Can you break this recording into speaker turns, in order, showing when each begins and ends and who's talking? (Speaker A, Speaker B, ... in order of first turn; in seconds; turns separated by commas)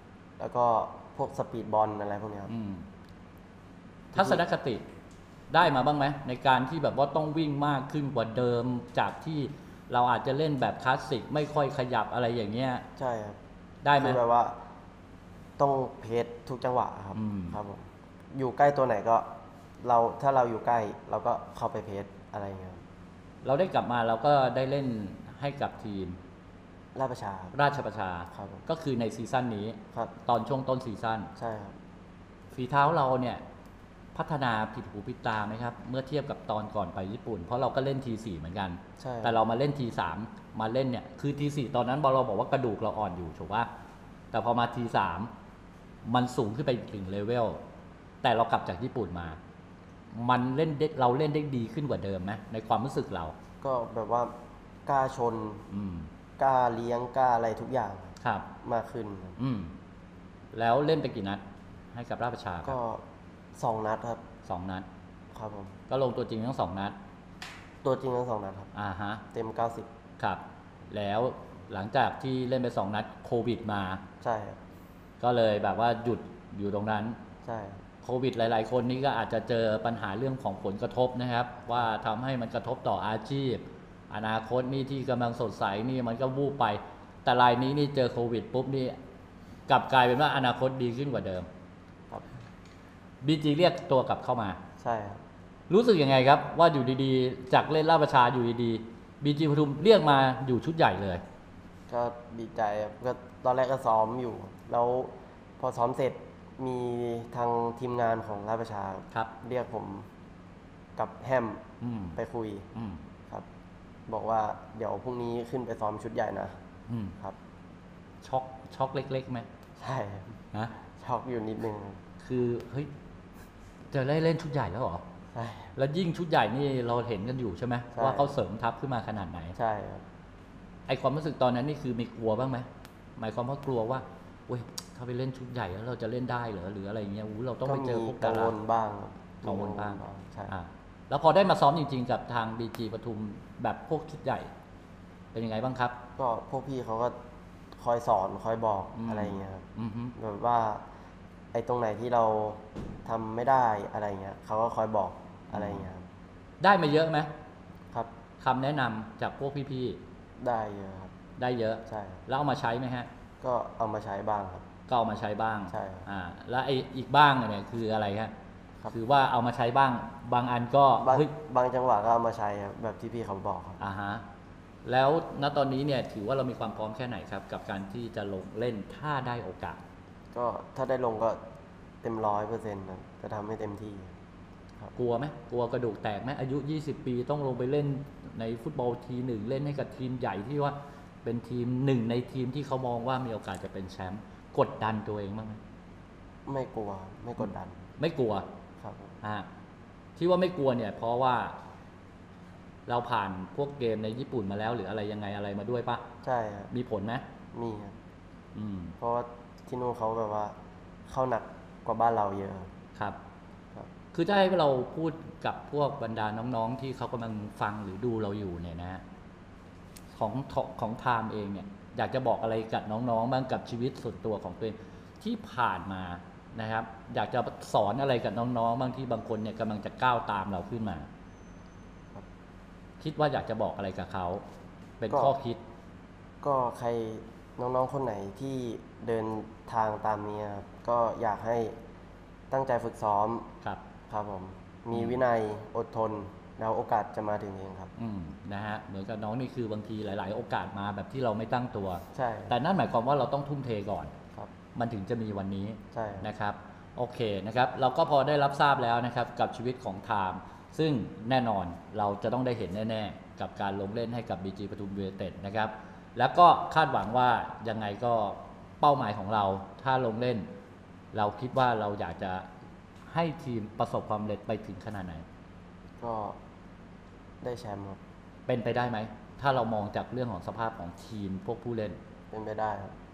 Speaker A: 0.4-2.5, Speaker B: 2.5-2.9, Speaker A: 4.1-4.4, Speaker B: 4.1-4.8, Speaker B: 5.5-12.8, Speaker A: 12.9-13.4, Speaker B: 13.8-14.2, Speaker A: 13.9-14.6, Speaker A: 15.6-19.3, Speaker B: 17.1-17.6, Speaker A: 19.8-22.8, Speaker B: 23.4-26.2, Speaker A: 26.9-27.5, Speaker B: 27.5-31.3, Speaker A: 28.3-28.6, Speaker A: 31.4-31.8, Speaker B: 32.5-33.4, Speaker B: 34.1-43.7, Speaker A: 39.0-39.4, Speaker B: 44.3-45.3, Speaker B: 46.0-47.6, Speaker B: 48.2-49.4, Speaker B: 50.1-53.3, Speaker A: 53.6-54.3, Speaker A: 54.8-55.7, Speaker B: 55.7-56.1, Speaker A: 56.4-59.4, Speaker B: 58.2-58.5, Speaker B: 59.4-59.8, Speaker B: 60.5-62.8, Speaker A: 62.6-63.0, Speaker A: 63.5-64.2, Speaker B: 64.5-64.9, Speaker A: 65.3-65.8, Speaker B: 65.9-67.0, Speaker A: 67.8-68.7, Speaker B: 68.7-69.2, Speaker A: 69.3-69.9, Speaker B: 70.2-74.0, Speaker A: 74.2-74.6, Speaker B: 75.2-77.2, Speaker A: 77.4-77.8, Speaker B: 78.0-89.0, Speaker B: 89.7-91.5, Speaker B: 93.2-94.6, Speaker A: 94.8-95.2, Speaker B: 95.7-101.2, Speaker A: 101.9-110.1, Speaker A: 111.0-111.6, Speaker B: 111.8-112.2, Speaker A: 112.1-112.7, Speaker B: 112.7-113.0, Speaker A: 114.1-116.5, Speaker B: 116.9-117.2, Speaker B: 118.2-119.5, Speaker A: 119.8-120.3, Speaker A: 120.8-122.0, Speaker B: 122.2-122.9, Speaker B: 123.9-125.0, Speaker A: 125.3-125.7, Speaker B: 125.7-129.6, Speaker A: 127.9-128.3, Speaker A: 129.6-130.0, Speaker B: 130.9-138.5, Speaker A: 137.6-140.5, Speaker B: 139.4-144.5, Speaker B: 145.3-146.0, Speaker A: 146.2-147.2, Speaker A: 147.8-150.8, Speaker B: 148.9-150.1, Speaker A: 151.5-156.1, Speaker B: 155.5-155.9, Speaker B: 156.6-157.3, Speaker B: 158.4-160.0, Speaker A: 160.4-161.1, Speaker B: 161.4-163.1, Speaker A: 161.9-162.2, Speaker A: 163.4-164.7, Speaker B: 164.9-168.3, Speaker A: 165.7-166.1, Speaker B: 168.9-171.3, Speaker A: 171.0-173.8, Speaker B: 173.8-174.2, Speaker B: 174.8-179.8, Speaker A: 180.3-181.4, Speaker A: 182.0-184.1, Speaker B: 184.9-195.6, Speaker A: 196.4-197.8, Speaker B: 198.0-198.4, Speaker A: 198.8-199.2, Speaker B: 199.2-199.5, Speaker B: 200.2-201.6, Speaker B: 202.9-206.1, Speaker A: 206.2-206.7, Speaker B: 206.7-207.2, Speaker A: 207.5-207.9, Speaker B: 208.5-208.9, Speaker A: 209.0-212.7, Speaker B: 214.1-219.0, Speaker B: 220.1-231.1, Speaker B: 233.0-234.4, Speaker B: 235.0-235.6, Speaker A: 235.1-235.3, Speaker A: 236.4-241.7, Speaker A: 242.5-243.5, Speaker A: 244.1-247.9, Speaker B: 244.9-245.2, Speaker B: 248.0-254.1, Speaker A: 252.1-252.5, Speaker B: 254.7-270.5, Speaker A: 255.9-256.3, Speaker B: 271.1-272.5, Speaker B: 273.1-275.2, Speaker A: 276.0-276.4, Speaker A: 277.4-278.0, Speaker B: 278.5-282.0, Speaker A: 282.3-282.9